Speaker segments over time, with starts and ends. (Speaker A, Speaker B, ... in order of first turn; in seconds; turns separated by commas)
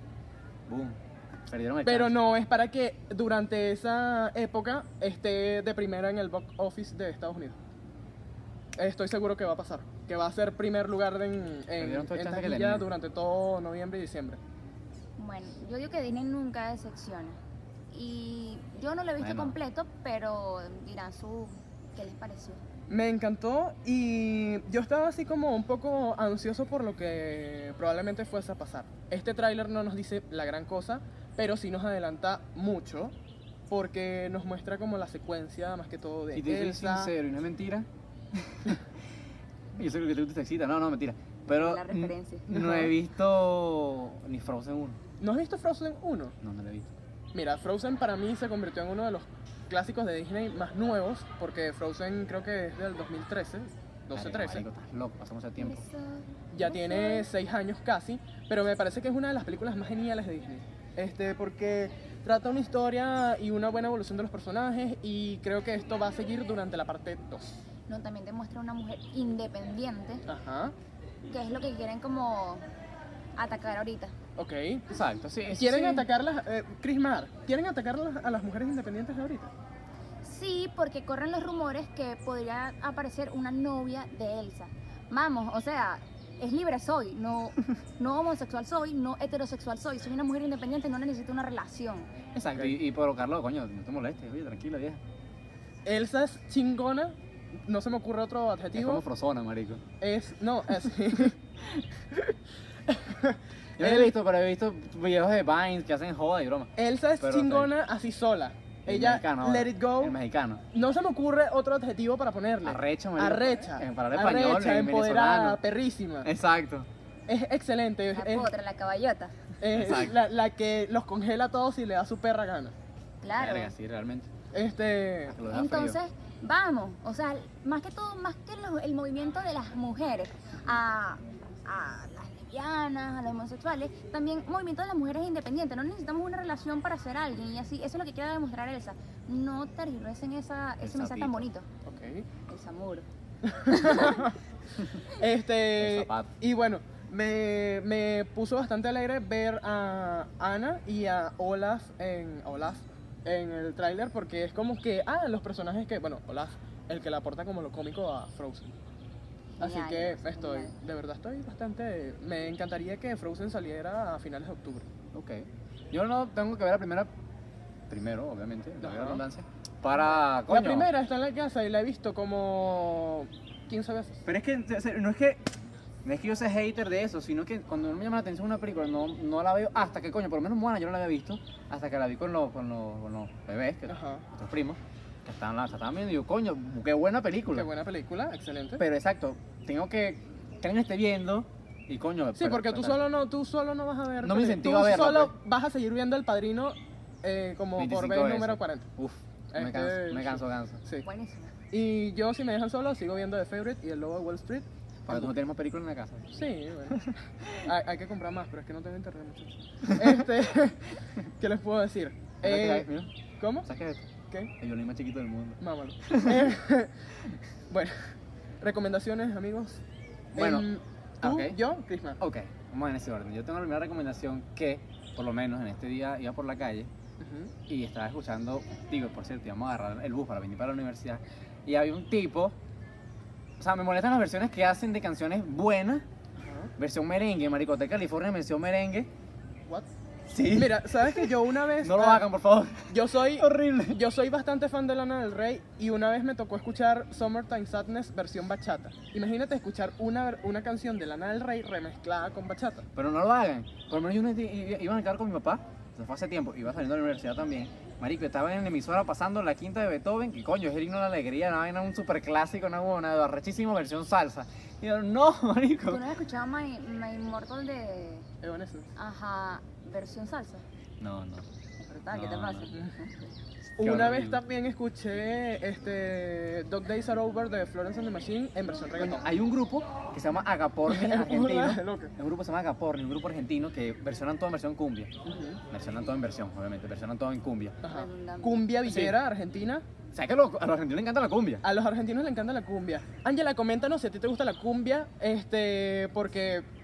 Speaker A: 0.7-2.1, Speaker B: 1.9-7.6, Speaker B: 8.8-14.4, Speaker A: 11.8-12.9, Speaker C: 15.2-17.4, Speaker C: 17.9-22.6, Speaker A: 19.2-19.5, Speaker B: 22.9-33.1, Speaker B: 33.7-37.1, Speaker A: 36.3-38.8, Speaker A: 39.8-45.0, Speaker C: 41.5-42.5, Speaker B: 42.5-42.9, Speaker B: 45.2-46.4, Speaker A: 46.4-46.9, Speaker B: 47.3-54.6, Speaker A: 54.1-55.9, Speaker C: 55.6-57.3, Speaker B: 56.5-67.6, Speaker C: 67.9-70.2, Speaker B: 70.3-70.8, Speaker C: 71.3-72.6, Speaker C: 73.4-74.1, Speaker B: 74.4-74.8, Speaker A: 74.9-76.1, Speaker B: 75.5-79.5, Speaker C: 80.2-92.1, Speaker A: 92.3-95.0, Speaker B: 95.8-97.1, Speaker B: 97.7-99.0, Speaker A: 98.8-99.8, Speaker B: 100.0-101.4, Speaker B: 102.9-104.1, Speaker A: 103.8-107.7, Speaker B: 106.8-110.2, Speaker A: 108.9-110.6, Speaker B: 110.7-116.3, Speaker A: 112.6-115.6, Speaker A: 116.2-116.9, Speaker B: 117.3-118.5, Speaker C: 118.1-119.3, Speaker B: 119.6-122.7, Speaker A: 119.7-120.2, Speaker C: 123.2-123.7, Speaker A: 123.3-124.3, Speaker B: 124.5-125.4, Speaker A: 125.3-126.0, Speaker C: 125.5-141.7, Speaker A: 140.8-141.5, Speaker B: 141.8-142.3, Speaker C: 142.5-143.1, Speaker B: 143.4-144.4, Speaker C: 143.7-144.3, Speaker B: 145.0-158.8, Speaker A: 145.8-146.3, Speaker C: 159.6-160.7, Speaker B: 159.6-164.9, Speaker A: 165.1-167.1, Speaker A: 167.9-170.9, Speaker B: 168.8-169.2, Speaker B: 170.5-174.2, Speaker A: 174.3-175.5, Speaker A: 176.0-187.7, Speaker B: 183.9-184.2, Speaker B: 187.5-188.8, Speaker A: 188.8-193.0, Speaker B: 192.4-198.9, Speaker A: 194.2-195.3, Speaker A: 197.8-200.8, Speaker B: 199.5-201.1, Speaker C: 201.0-201.5, Speaker B: 201.7-205.3, Speaker A: 205.1-206.3, Speaker B: 206.3-212.9, Speaker A: 206.9-207.6, Speaker A: 209.9-210.2, Speaker A: 212.4-213.1, Speaker B: 213.4-213.7, Speaker A: 213.7-214.1, Speaker A: 214.6-216.5, Speaker B: 215.6-217.0, Speaker B: 217.7-219.8, Speaker A: 220.3-220.7, Speaker B: 220.4-222.2, Speaker A: 221.2-221.6, Speaker A: 222.2-226.9, Speaker B: 227.2-227.5, Speaker A: 227.7-232.6, Speaker A: 233.6-236.1, Speaker B: 236.4-236.7, Speaker A: 236.8-239.1, Speaker A: 240.3-244.0, Speaker B: 240.5-242.3, Speaker B: 242.9-252.9, Speaker A: 252.9-266.0, Speaker C: 265.9-268.3, Speaker B: 268.4-268.9, Speaker C: 269.0-270.6, Speaker A: 271.0-271.5, Speaker C: 271.9-273.1, Speaker A: 272.1-272.7, Speaker B: 273.8-279.3, Speaker A: 273.8-274.4, Speaker A: 279.0-285.1, Speaker B: 280.9-282.1, Speaker B: 285.2-285.6, Speaker A: 285.7-287.8, Speaker B: 287.8-289.8, Speaker C: 287.8-288.7, Speaker A: 288.9-289.2, Speaker A: 290.1-291.6, Speaker B: 291.6-296.7